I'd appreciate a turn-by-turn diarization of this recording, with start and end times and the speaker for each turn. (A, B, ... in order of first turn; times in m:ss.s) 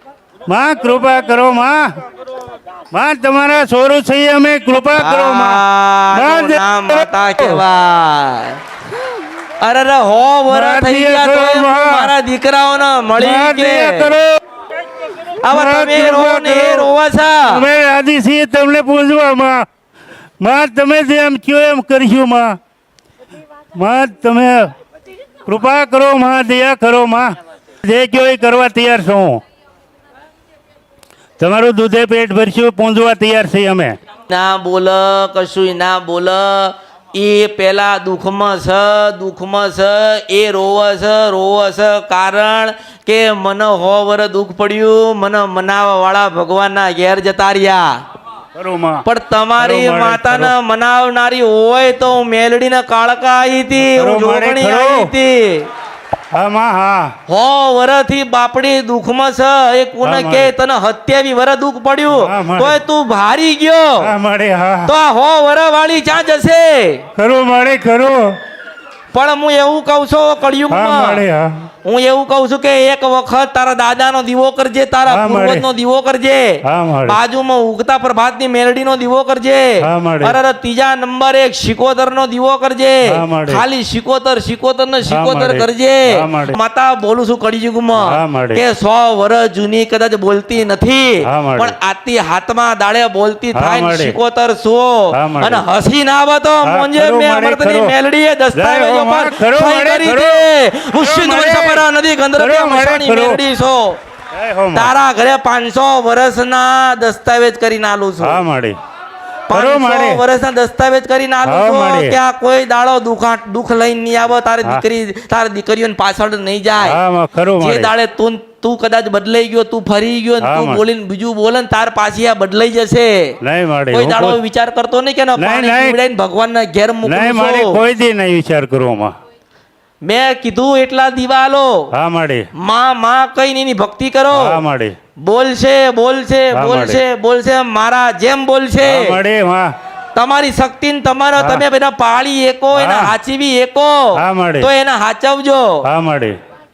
0:00.5-0:01.9 A
0:02.9-0:05.6 A
0:05.0-0:08.6 B
0:06.1-0:07.6 A
0:09.6-0:14.2 B
0:10.5-0:12.1 A
0:13.2-0:14.4 A
0:15.4-0:17.7 B
0:15.5-0:16.9 A
0:17.4-0:19.6 A
0:20.4-0:22.6 A
0:23.8-0:24.7 A
0:25.5-0:27.3 A
0:27.8-0:29.4 A
0:31.4-0:34.0 A
0:34.3-0:47.9 B
0:48.6-0:49.0 A
0:49.0-0:55.7 B
0:49.6-0:50.5 A
0:53.8-0:55.1 A
0:56.4-0:57.1 A
0:57.3-1:04.1 B
1:00.0-1:00.5 A
1:02.1-1:02.8 A
1:04.0-1:04.9 A
1:04.9-1:07.0 B
1:07.2-1:08.3 A
1:09.1-1:11.2 B
1:10.7-1:11.5 A
1:11.8-1:44.0 B
1:15.1-1:15.7 A
1:16.6-1:17.2 A
1:19.8-1:20.4 A
1:23.0-1:23.6 A
1:25.1-1:26.6 A
1:28.0-1:28.6 A
1:31.2-1:31.8 A
1:33.5-1:34.2 A
1:35.1-1:35.6 A
1:36.6-1:38.0 A
1:38.5-1:41.8 A
1:42.4-1:43.4 A
1:44.3-1:44.9 A
1:44.7-1:48.4 B
1:48.2-1:48.8 A
1:49.5-1:57.0 B
1:49.5-1:50.2 A
1:51.4-1:52.2 A
1:56.8-1:57.9 A
1:57.6-2:03.4 B
2:00.4-2:00.8 A
2:03.4-2:04.4 A
2:03.9-2:07.8 B
2:05.4-2:06.0 A
2:07.0-2:09.1 A
2:10.0-2:11.7 B
2:11.9-2:12.4 A
2:12.6-2:14.6 B
2:14.3-2:15.0 A
2:15.2-2:19.2 B
2:16.5-2:17.0 A
2:18.8-2:19.7 A
2:20.1-2:25.8 B
2:21.4-2:21.6 A
2:22.7-2:23.2 A
2:24.1-2:24.7 A
2:25.8-2:26.4 A